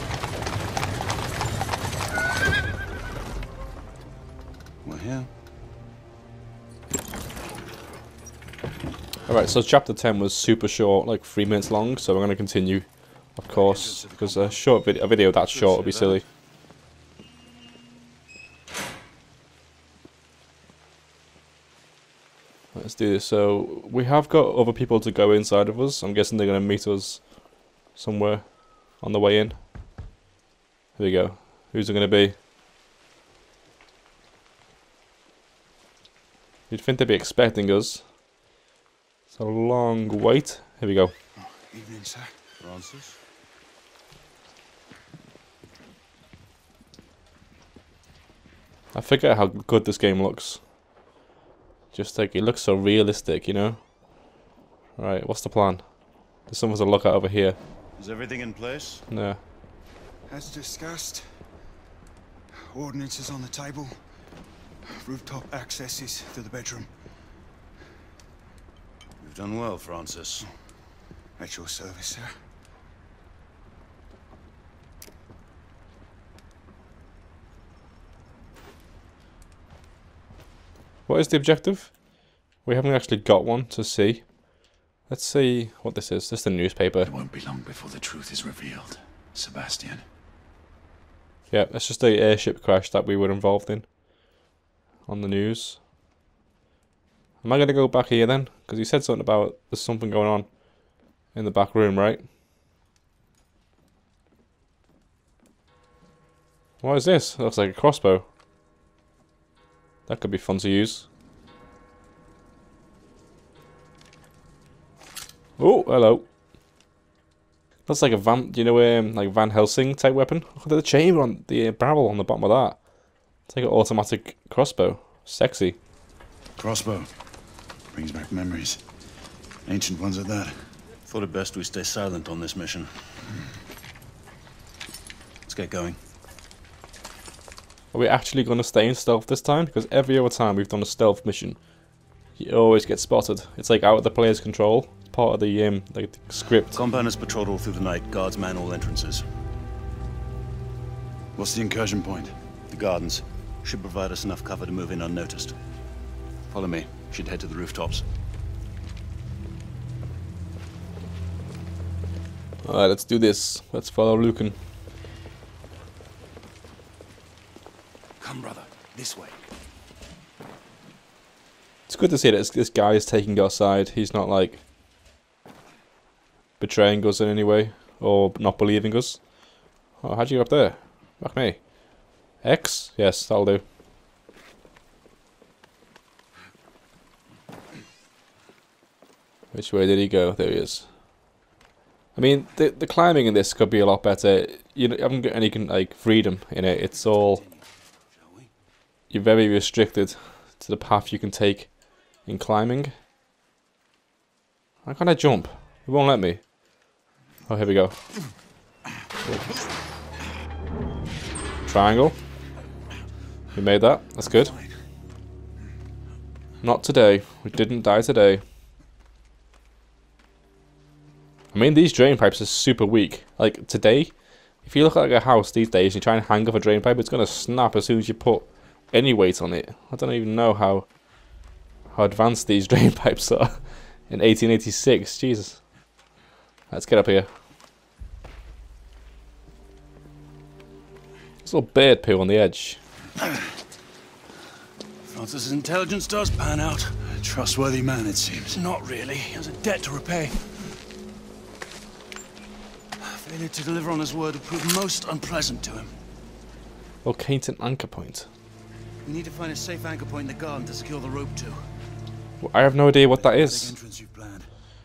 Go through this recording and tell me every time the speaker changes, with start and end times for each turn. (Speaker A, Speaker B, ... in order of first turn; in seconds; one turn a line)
Speaker A: 4.8-5.3
Speaker B: 9.3-16.2
Speaker C: 13.5-14.6
Speaker C: 15.5-16.1
Speaker B: 22.7-29.6
Speaker B: 31.0-32.4
Speaker B: 36.7-38.1
Speaker B: 39.3-41.1
Speaker C: 41.5-42.3
Speaker A: 42.6-43.2
Speaker B: 48.9-50.6
Speaker B: 51.9-53.8
Speaker B: 55.0-55.9
Speaker B: 56.4-57.6
Speaker A: 58.0-59.0
Speaker B: 59.1-59.4
Speaker C: 60.3-61.2
Speaker C: 62.5-64.0
Speaker C: 64.8-66.9
Speaker A: 69.2-70.5
Speaker C: 71.4-72.3
Speaker B: 81.1-81.9
Speaker B: 82.6-84.3
Speaker B: 85.0-87.1
Speaker C: 87.0-90.0
Speaker B: 91.5-93.9
Speaker B: 95.1-95.8
Speaker B: 97.4-100.5
Speaker B: 101.3-102.2
Speaker B: 106.8-108.3
Speaker B: 110.1-111.1
Speaker B: 115.6-116.2
Speaker B: 117.9-122.8
Speaker B: 123.5-125.8
Speaker C: 126.6-127.1
Speaker C: 127.9-128.8
Speaker C: 129.6-130.6
Speaker A: 131.1-132.9
Speaker A: 135.4-136.0
Speaker B: 137.9-141.6
Speaker B: 142.4-146.8
Speaker A: 146.7-149.2
Speaker C: 151.3-152.3
Speaker A: 152.7-155.6
Speaker A: 156.5-158.0
Speaker B: 162.6-164.6
Speaker A: 168.2-169.2
Speaker C: 169.0-169.3
Speaker B: 171.9-174.6
Speaker B: 176.6-179.3
Speaker B: 180.0-181.8
Speaker B: 182.3-183.6
Speaker B: 189.5-190.9
Speaker B: 192.2-197.4
Speaker A: 196.8-198.5
Speaker B: 199.1-202.9
Speaker B: 204.8-206.4
Speaker B: 207.5-208.0
Speaker B: 211.7-212.2
Speaker B: 213.5-214.5
Speaker C: 214.2-214.7
Speaker B: 216.6-218.4
Speaker B: 221.5-230.9
Speaker B: 231.9-235.6
Speaker B: 236.7-237.3
Speaker B: 241.4-242.8
Speaker A: 245.0-247.2
Speaker C: 247.2-248.6
Speaker A: 248.5-250.7
Speaker A: 253.0-255.9
Speaker B: 257.0-258.3
Speaker A: 259.0-261.6
Speaker B: 262.4-263.7
Speaker C: 263.1-264.5